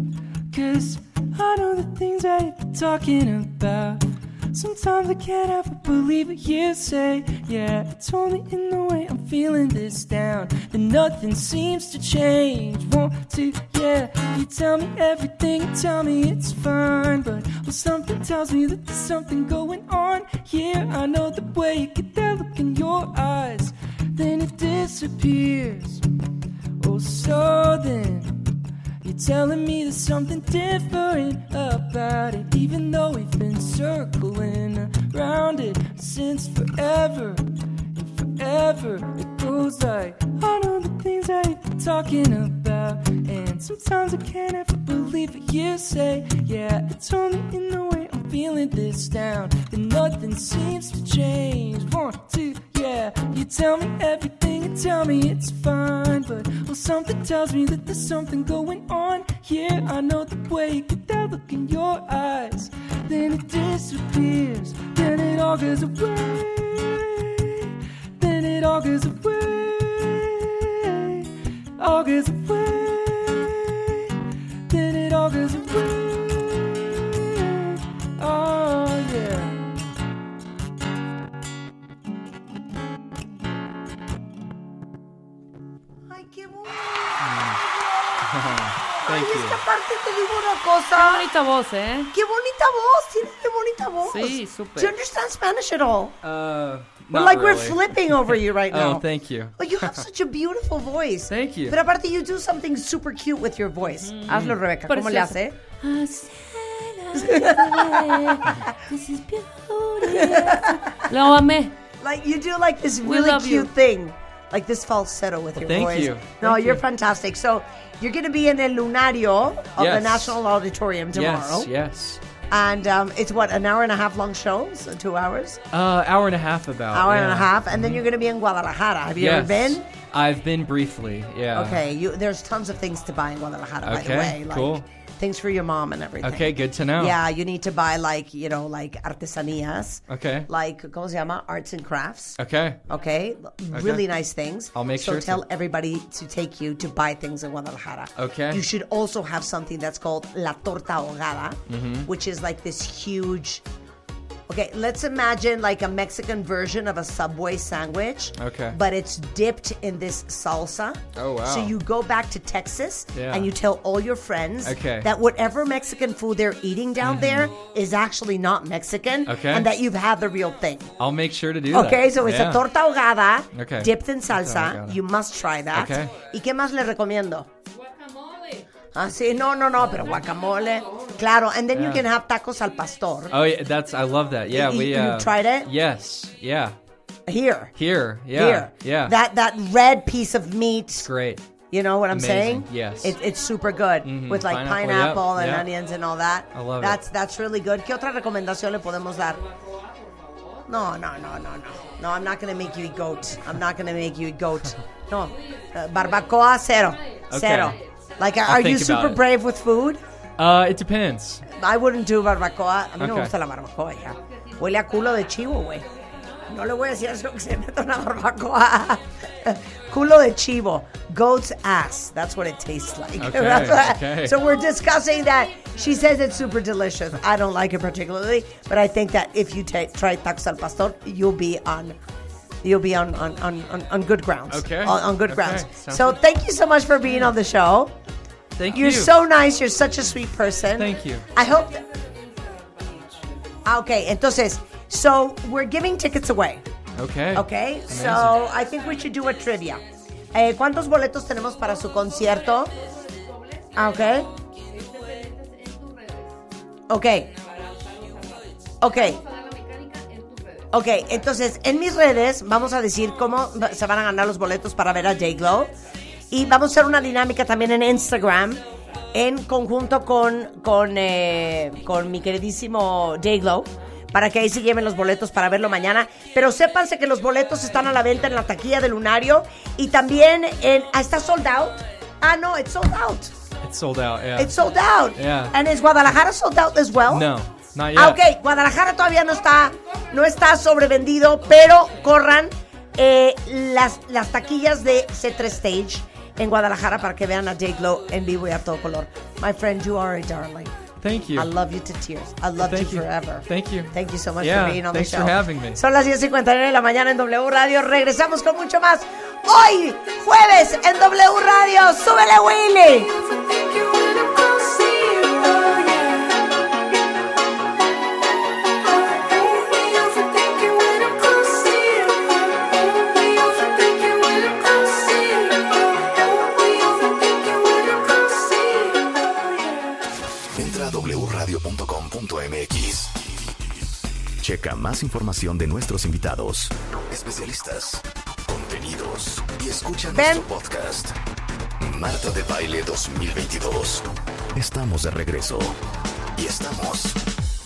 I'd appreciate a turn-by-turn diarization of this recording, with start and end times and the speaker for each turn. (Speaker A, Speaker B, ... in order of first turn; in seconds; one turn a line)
Speaker A: 0.5-26.1
Speaker A: 26.8-74.1
Speaker A: 74.7-79.8
Speaker B: 86.1-91.3
Speaker A: 87.2-87.6
Speaker A: 88.2-89.6
Speaker C: 90.9-92.1
Speaker B: 92.1-96.2
Speaker C: 94.0-95.0
Speaker A: 96.2-100.0
Speaker B: 97.1-99.0
Speaker B: 99.6-105.6
Speaker A: 101.3-101.8
Speaker C: 104.0-111.8
Speaker A: 104.3-104.6
Speaker B: 107.2-108.8
Speaker B: 110.1-111.1
Speaker B: 112.0-121.7
Speaker C: 113.0-113.7
Speaker A: 115.6-116.8
Speaker A: 119.8-120.4
Speaker A: 121.1-122.2
Speaker B: 122.5-125.6
Speaker A: 125.7-128.0
Speaker B: 126.9-129.9
Speaker A: 129.2-131.8
Speaker B: 131.5-142.4
Speaker A: 133.8-134.8
Speaker A: 136.2-137.2
Speaker A: 140.1-140.5
Speaker A: 142.4-142.8
Speaker B: 142.9-153.6
Speaker A: 143.7-144.1
Speaker A: 144.7-145.4
Speaker A: 148.2-148.6
Speaker A: 151.7-152.1
Speaker B: 154.5-170.9
Speaker A: 158.4-158.8
Speaker A: 161.2-161.8
Speaker A: 163.1-163.5
Speaker A: 164.6-165.1
Speaker A: 167.0-167.6
Speaker A: 169.3-169.7
Speaker A: 171.0-172.6
Speaker B: 171.7-177.5
Speaker A: 173.5-175.0
Speaker A: 175.7-176.1
Speaker C: 177.8-178.7
Speaker B: 178.9-183.4
Speaker A: 181.7-182.1
Speaker A: 183.3-186.8
Speaker B: 184.5-185.7
Speaker B: 187.3-187.7
Speaker A: 187.8-189.2
Speaker B: 188.4-191.1
Speaker A: 190.9-191.5
Speaker B: 191.7-199.4
Speaker A: 192.1-193.2
Speaker A: 194.0-195.7
Speaker A: 196.5-197.0
Speaker C: 199.6-200.7
Speaker B: 200.7-210.0
Speaker A: 207.3-207.8
Speaker A: 208.5-209.2
Speaker A: 210.4-211.4
Speaker B: 211.5-215.8
Speaker A: 213.0-213.3
Speaker B: 216.5-232.0
Speaker A: 223.2-224.4
Speaker B: 232.6-237.9
Speaker A: 234.5-236.2
Speaker A: 237.1-237.3
Speaker A: 238.6-239.1
Speaker B: 238.8-241.9
Speaker A: 240.8-241.3
Speaker C: 242.5-243.1
Speaker B: 243.7-246.6
Speaker A: 247.0-248.4
Speaker B: 247.3-249.8
Speaker B: 250.3-252.7
Speaker C: 252.6-256.4
Speaker B: 253.8-254.3
Speaker B: 256.9-257.3
Speaker C: 257.4-260.7
Speaker B: 258.8-259.2
Speaker B: 260.7-265.7
Speaker B: 266.3-268.6
Speaker B: 269.1-283.3
Speaker A: 283.6-284.6
Speaker B: 284.4-287.3
Speaker A: 285.1-285.6
Speaker A: 287.1-288.2
Speaker B: 287.9-300.8
Speaker A: 301.0-301.5
Speaker B: 301.4-313.1
Speaker A: 302.6-305.8
Speaker D: 330.6-333.2
Speaker D: 334.4-341.2
Speaker B: 340.1-340.5
Speaker D: 341.8-345.8
Speaker D: 346.4-347.2